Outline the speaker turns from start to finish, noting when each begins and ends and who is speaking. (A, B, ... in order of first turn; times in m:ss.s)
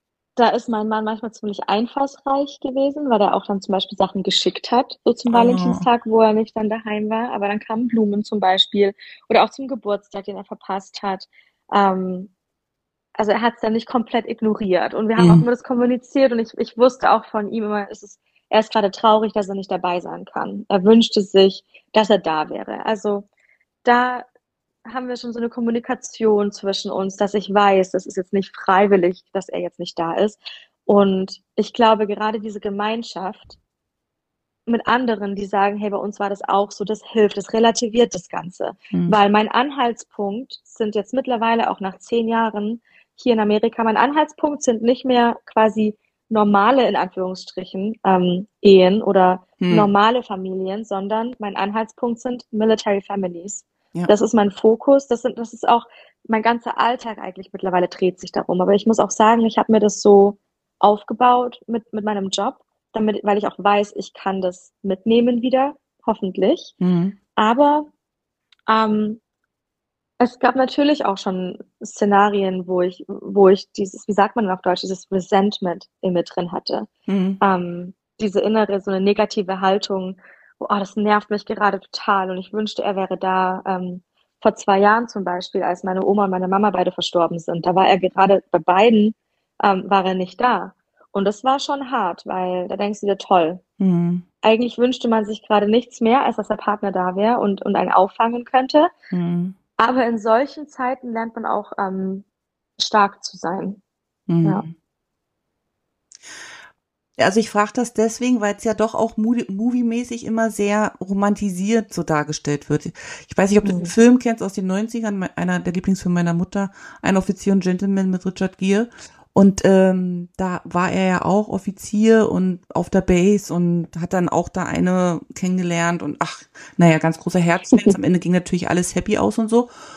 0:00.4-0:12.3 A
0:05.3-0:05.8 B
0:13.2-0:23.3 A
0:15.2-0:15.5 B
0:23.8-0:24.2 A
0:24.8-0:33.6 A
0:34.7-1:06.7 A
0:38.9-0:39.2 B
0:49.6-0:49.9 B
1:06.8-1:07.2 B
1:07.4-1:07.9 A
1:08.7-1:09.2 A
1:10.2-1:16.9 A
1:17.1-1:17.4 B
1:17.4-1:33.6 A
1:33.8-1:34.2 B
1:34.4-1:38.9 A
1:39.1-1:39.5 B
1:39.8-1:42.2 A
1:42.8-1:43.8 A
1:44.3-1:44.7 B
1:47.2-2:09.7 B
1:53.6-1:53.9 A
2:07.7-2:08.0 A